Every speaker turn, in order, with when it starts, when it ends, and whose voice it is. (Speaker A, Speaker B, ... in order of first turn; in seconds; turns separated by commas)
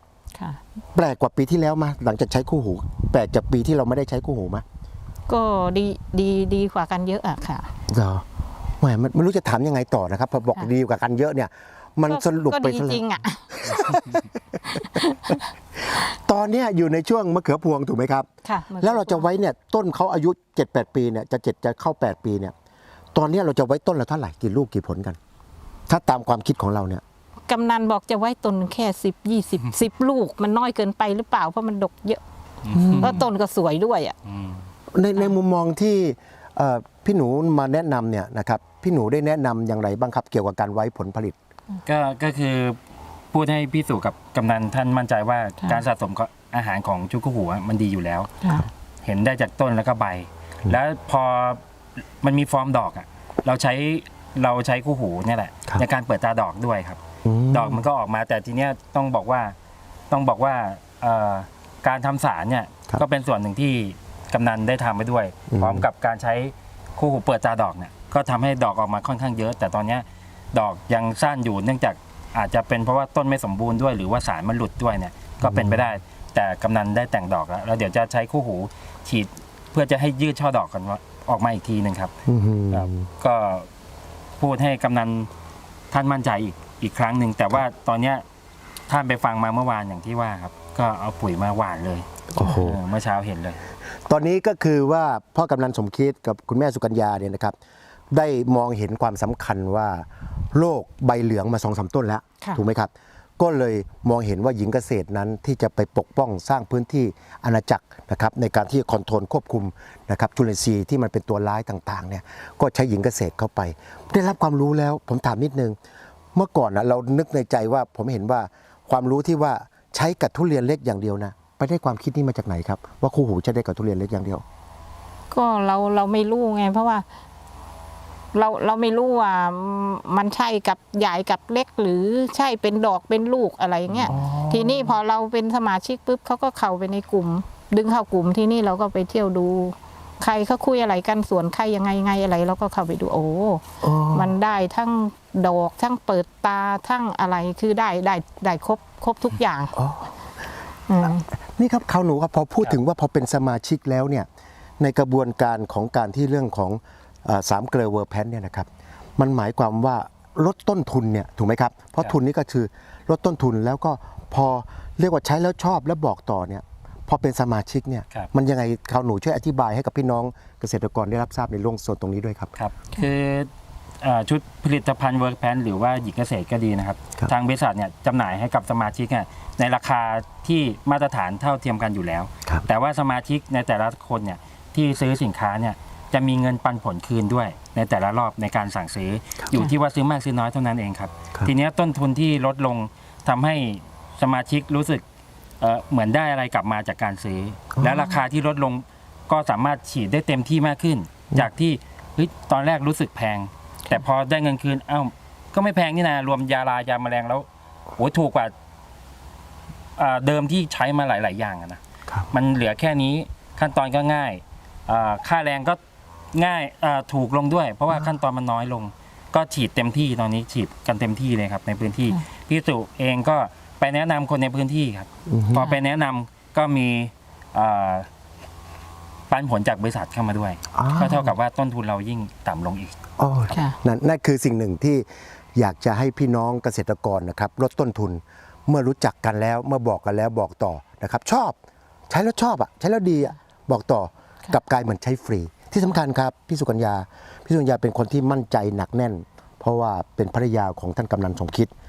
Speaker A: 0.3-0.6, Speaker B: 0.9-4.6, Speaker A: 5.3-7.7, Speaker B: 7.9-8.3, Speaker B: 8.8-18.3, Speaker A: 12.1-14.2, Speaker A: 14.7-15.4, Speaker A: 18.4-19.3, Speaker B: 18.8-22.5, Speaker B: 23.1-25.2, Speaker B: 25.9-27.0, Speaker A: 27.5-32.2, Speaker C: 32.6-33.3, Speaker B: 32.7-33.3, Speaker A: 33.0-34.1, Speaker C: 34.3-34.6, Speaker B: 34.9-41.4, Speaker C: 41.9-42.8, Speaker C: 43.3-48.5, Speaker C: 49.0-51.6, Speaker C: 52.2-57.0, Speaker B: 57.2-57.9, Speaker C: 57.5-59.5, Speaker C: 60.1-82.1, Speaker B: 65.5-65.9, Speaker B: 75.4-75.8, Speaker B: 82.3-83.1, Speaker C: 82.7-83.7, Speaker C: 84.4-85.3, Speaker C: 85.9-88.2, Speaker C: 88.9-93.6, Speaker B: 92.3-92.8, Speaker B: 94.1-97.6, Speaker B: 98.1-115.8, Speaker B: 116.3-124.4, Speaker A: 125.3-127.0, Speaker A: 128.3-149.8, Speaker C: 133.9-134.2, Speaker B: 134.1-135.0, Speaker B: 143.8-144.3, Speaker B: 149.8-150.1, Speaker A: 150.9-151.3, Speaker B: 151.0-154.3, Speaker B: 154.8-172.5, Speaker C: 172.6-173.5, Speaker C: 174.0-195.0, Speaker C: 195.6-207.5, Speaker B: 197.8-198.1, Speaker C: 208.0-208.5, Speaker C: 210.0-211.8, Speaker C: 212.3-215.8, Speaker C: 216.3-228.1, Speaker B: 225.3-225.7, Speaker C: 229.3-233.0, Speaker B: 230.7-231.3, Speaker B: 233.2-241.6, Speaker A: 233.5-233.8, Speaker B: 242.1-251.7